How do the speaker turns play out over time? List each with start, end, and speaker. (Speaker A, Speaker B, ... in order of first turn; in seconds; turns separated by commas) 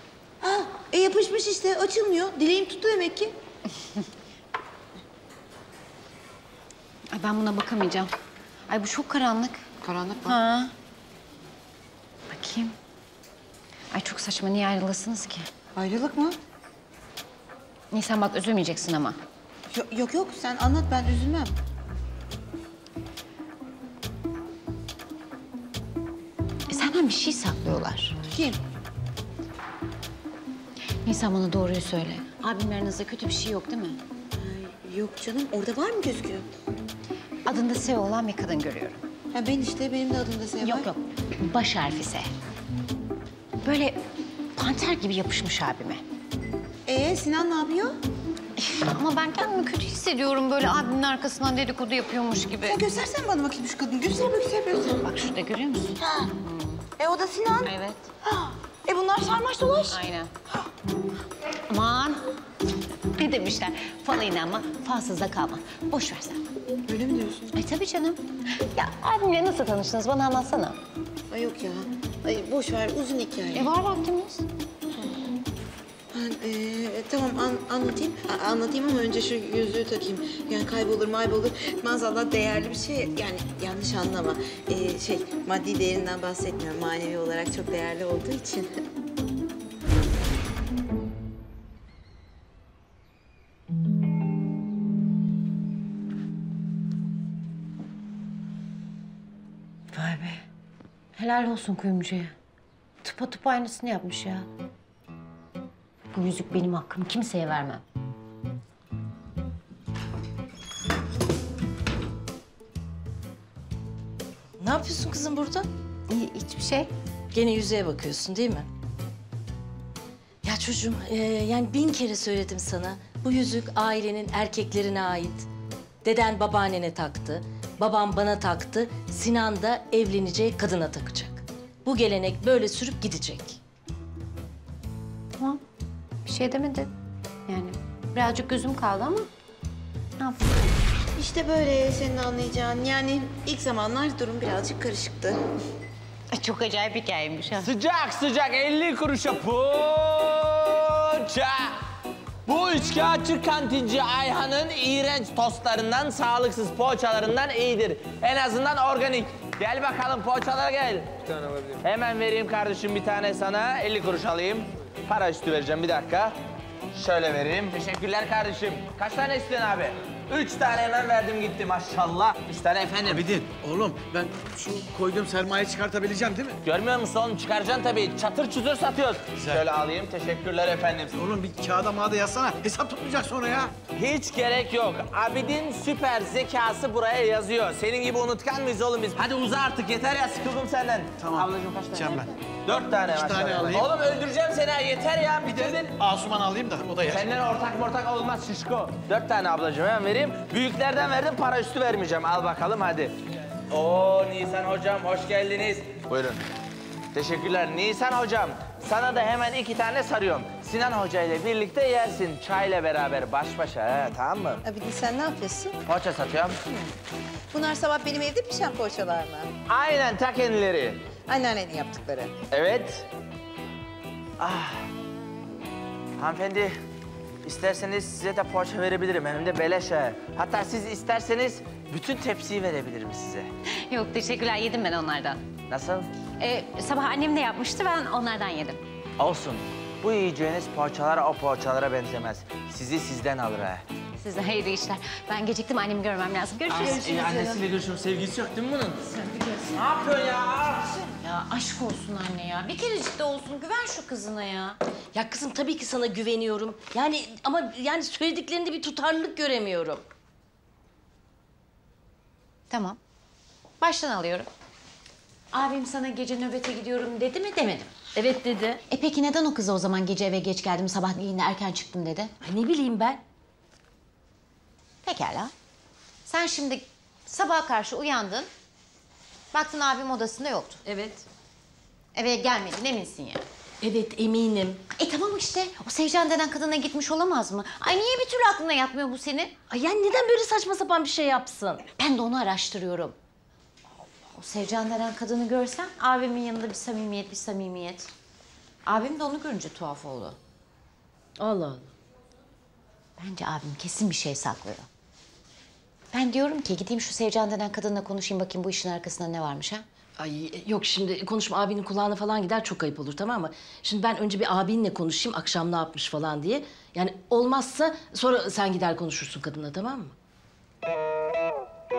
Speaker A: 0.4-3.3, Speaker B: 7.1-8.1, Speaker B: 8.7-9.6, Speaker A: 9.8-10.4, Speaker B: 10.2-10.7, Speaker B: 12.3-12.7, Speaker B: 13.9-15.5, Speaker A: 15.7-16.4, Speaker B: 17.9-19.2, Speaker A: 19.7-21.5, Speaker B: 26.7-28.2, Speaker A: 28.3-28.6, Speaker B: 31.0-34.0, Speaker A: 34.4-36.5, Speaker B: 37.5-39.0, Speaker A: 39.3-40.9, Speaker B: 40.6-42.3, Speaker B: 43.6-44.0, Speaker B: 44.5-46.0, Speaker A: 46.9-47.9, Speaker B: 48.6-52.8, Speaker A: 52.6-55.1, Speaker B: 55.0-56.8, Speaker A: 56.0-56.3, Speaker A: 57.0-60.0, Speaker B: 57.6-58.1, Speaker B: 59.9-60.3, Speaker B: 61.7-62.2, Speaker B: 63.1-66.4, Speaker A: 66.9-67.5, Speaker B: 67.5-70.8, Speaker A: 71.3-73.7, Speaker B: 73.5-74.4, Speaker A: 76.1-88.7, Speaker B: 99.9-100.4, Speaker B: 101.2-102.3, Speaker B: 103.0-104.5, Speaker B: 106.1-107.8, Speaker C: 114.6-115.7, Speaker B: 116.1-116.9, Speaker C: 117.3-118.7, Speaker C: 120.4-125.5, Speaker C: 126.0-133.6, Speaker B: 136.2-136.9, Speaker B: 137.5-139.3, Speaker B: 140.2-140.5, Speaker A: 141.2-145.4, Speaker B: 146.3-147.7, Speaker D: 147.6-151.8, Speaker D: 152.4-166.3, Speaker D: 166.9-173.3, Speaker E: 173.0-176.6, Speaker D: 176.6-181.2, Speaker E: 179.4-179.6, Speaker E: 181.1-183.7, Speaker D: 183.9-195.9, Speaker E: 191.2-192.3, Speaker E: 193.1-193.9, Speaker E: 195.4-197.3, Speaker D: 197.0-203.1, Speaker D: 203.7-206.4, Speaker D: 207.1-214.6, Speaker A: 214.6-215.8, Speaker D: 215.8-216.6, Speaker A: 217.5-219.5, Speaker D: 219.7-221.0, Speaker A: 221.3-222.3, Speaker D: 222.5-223.1, Speaker D: 224.4-224.8, Speaker D: 226.2-226.7, Speaker D: 227.4-233.5, Speaker B: 233.9-235.4, Speaker D: 235.7-236.1, Speaker B: 236.4-238.8, Speaker D: 239.2-243.8, Speaker B: 244.2-247.6, Speaker D: 246.7-249.0, Speaker B: 249.0-249.8, Speaker D: 249.7-251.1, Speaker B: 251.2-254.8, Speaker C: 255.1-260.1, Speaker B: 262.7-263.0, Speaker B: 263.8-264.5, Speaker B: 265.5-267.9, Speaker C: 268.1-268.8, Speaker B: 268.9-272.3, Speaker C: 272.4-273.2, Speaker B: 275.0-275.5, Speaker B: 276.2-278.5, Speaker B: 279.5-280.8, Speaker C: 280.9-281.2, Speaker B: 282.1-283.4, Speaker C: 283.8-284.8, Speaker B: 284.9-289.5, Speaker C: 289.7-291.8, Speaker B: 292.0-293.1, Speaker B: 294.3-298.1, Speaker B: 298.9-300.4, Speaker C: 301.4-301.9, Speaker B: 303.2-304.9, Speaker B: 306.1-309.8, Speaker C: 310.2-320.1